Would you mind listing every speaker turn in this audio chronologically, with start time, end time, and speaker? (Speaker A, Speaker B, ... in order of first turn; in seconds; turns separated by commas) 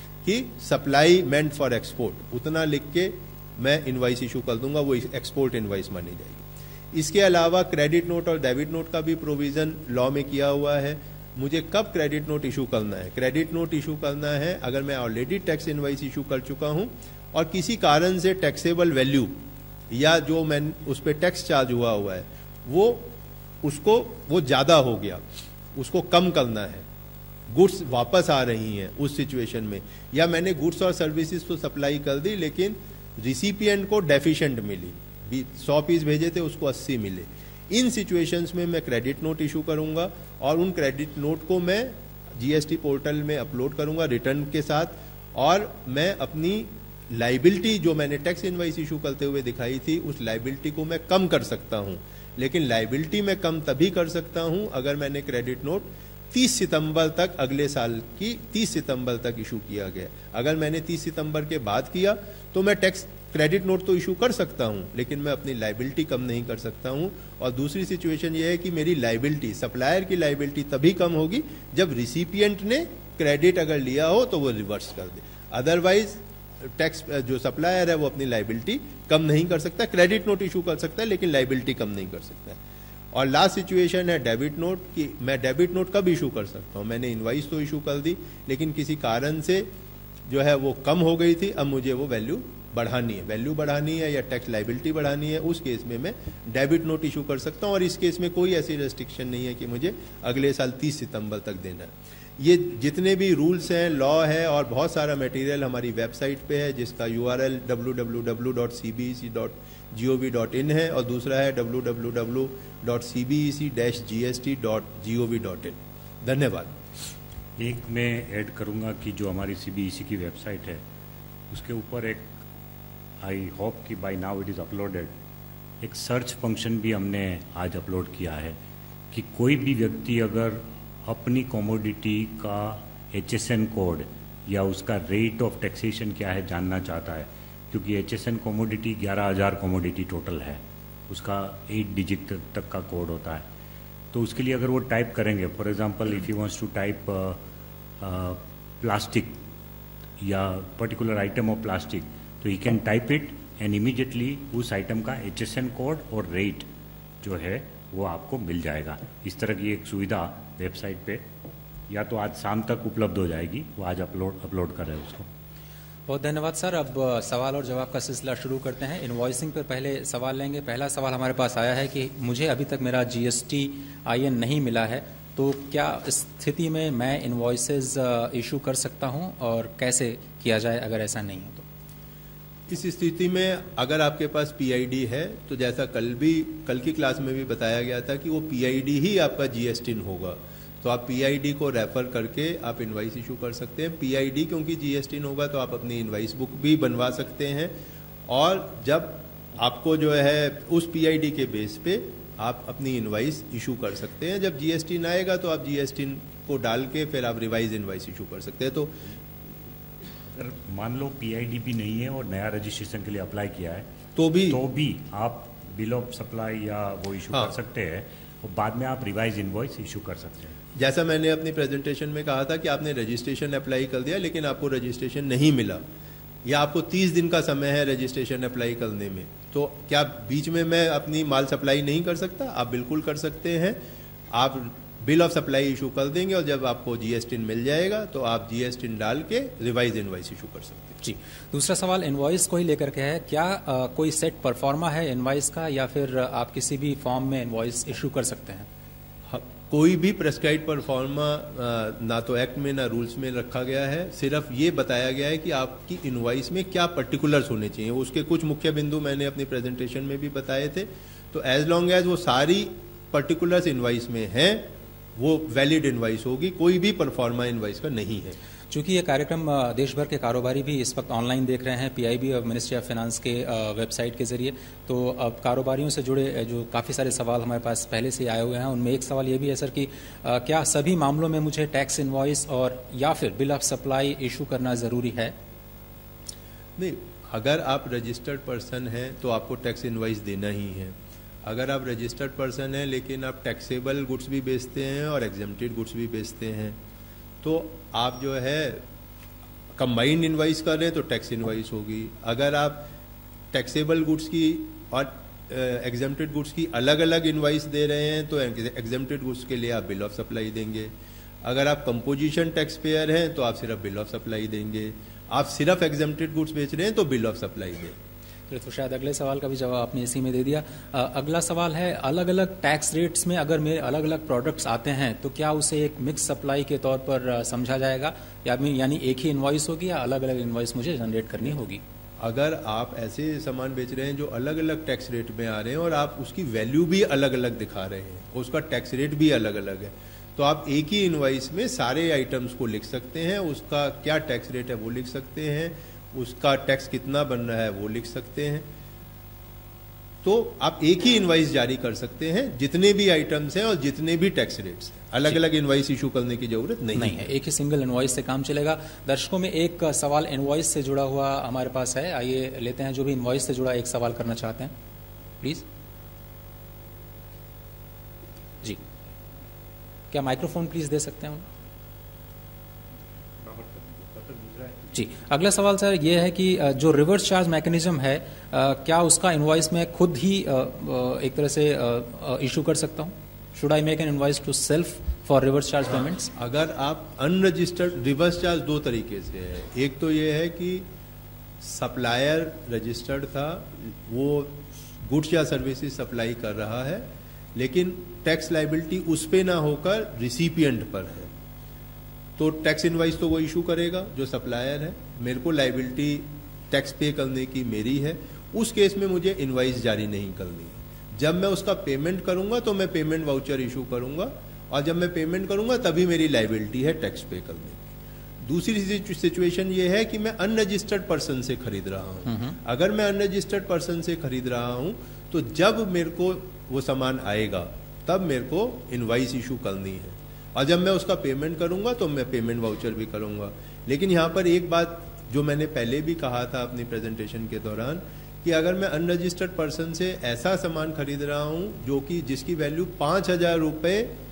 Speaker A: 0.2-19.4, Speaker A: 19.9-23.1, Speaker A: 23.6-25.2, Speaker A: 25.8-26.9, Speaker A: 27.5-82.6, Speaker A: 83.1-89.7, Speaker A: 90.3-116.8, Speaker B: 117.6-120.8, Speaker B: 121.5-122.3, Speaker B: 123.2-125.1, Speaker B: 125.8-128.6, Speaker B: 129.1-143.4, Speaker B: 144.1-147.4, Speaker B: 148.0-149.4, Speaker B: 150.2-156.7, Speaker B: 157.2-161.2, Speaker B: 161.9-165.3, Speaker C: 166.1-181.7, Speaker A: 182.7-197.8, Speaker A: 198.3-209.0, Speaker B: 210.3-213.9, Speaker A: 214.2-214.6, Speaker B: 214.5-220.6, Speaker A: 220.8-225.8, Speaker A: 226.4-233.8, Speaker A: 234.3-241.0, Speaker C: 241.0-248.7, Speaker A: 249.3-268.4, Speaker C: 268.7-285.3, Speaker A: 286.8-296.8, Speaker A: 297.4-298.9, Speaker A: 299.8-302.9, Speaker A: 303.5-310.9, Speaker A: 311.4-318.0, Speaker C: 318.5-331.8, Speaker A: 332.2-348.7, Speaker A: 350.2-357.2, Speaker C: 357.0-364.7, Speaker C: 370.1-371.4, Speaker B: 373.4-374.9, Speaker C: 374.9-386.3, Speaker A: 386.4-390.9, Speaker A: 391.6-401.3, Speaker A: 402.4-417.8, Speaker A: 418.4-444.1, Speaker C: 422.3-422.6